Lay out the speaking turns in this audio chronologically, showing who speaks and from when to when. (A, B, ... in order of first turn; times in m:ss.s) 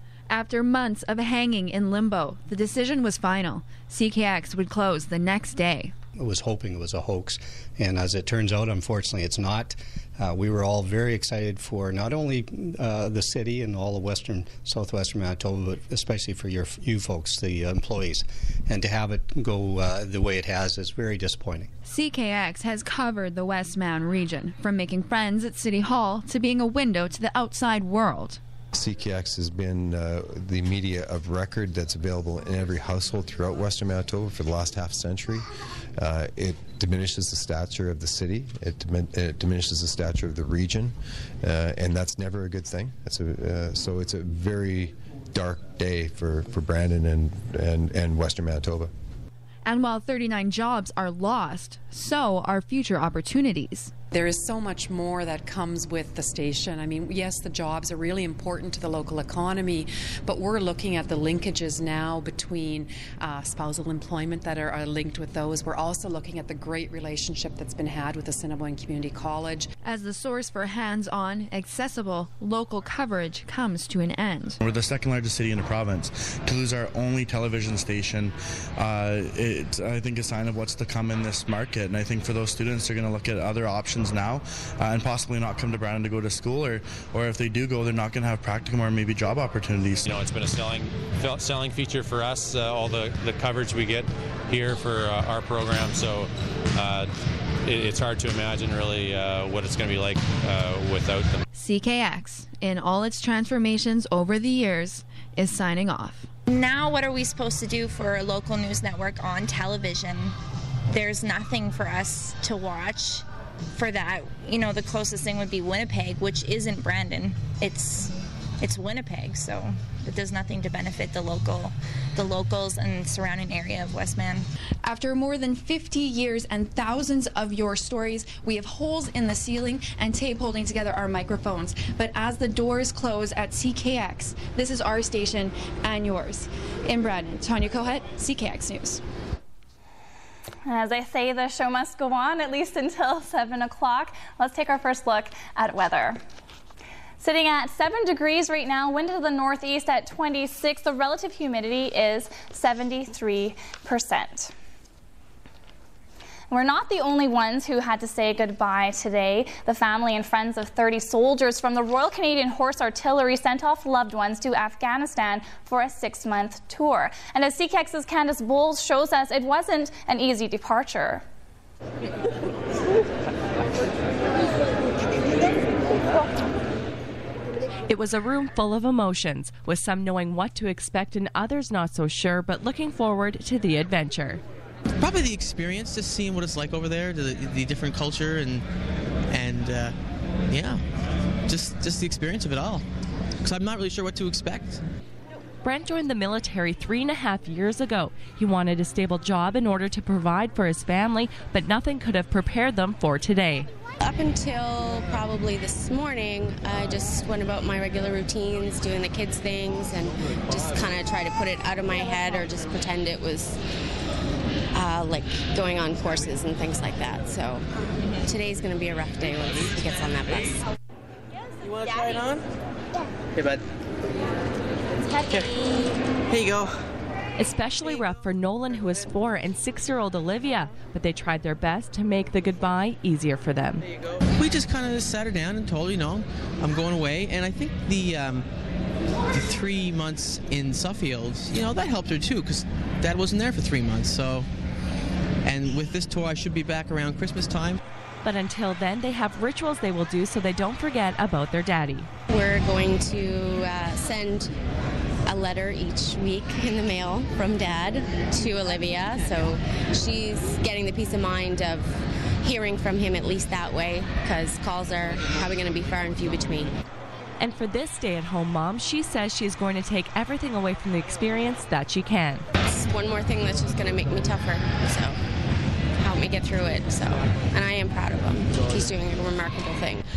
0:00.3-0:05.9 A
0:06.2-0:21.7 B
0:21.8-0:28.4 A
0:28.7-0:35.5 C
0:36.0-0:48.9 C
0:49.6-0:53.9 A
0:54.1-1:09.7 D
1:09.8-1:14.6 A
1:14.6-1:30.1 E
1:30.1-1:37.1 F
1:37.6-1:41.4 F
1:41.6-1:46.3 A
1:46.5-1:50.3 G
1:50.9-1:53.2 G
1:53.7-2:04.4 G
2:04.8-2:19.0 A
2:20.6-2:26.2 H
2:27.2-2:34.5 H
2:36.5-2:51.2 H
2:57.9-3:04.4 I
3:05.0-3:08.6 J
3:09.3-3:09.9 J
3:10.5-3:10.8 J
3:11.5-3:12.8 J
3:13.4-3:14.8 J
3:15.6-3:23.7 I
3:24.0-3:33.6 K
3:34.7-3:37.7 K
3:38.2-3:40.6 K
3:41.6-3:42.4 J
3:46.3-3:46.7 J
3:47.4-3:53.8 I
3:54.4-3:58.5 J
3:59.3-4:04.5 J
4:05.4-4:07.8 J
4:08.2-4:12.1 I
4:12.3-4:14.5 K
4:15.2-4:26.7 K
4:27.4-4:32.4 I
4:32.6-4:35.2 K
4:36.0-4:40.0 K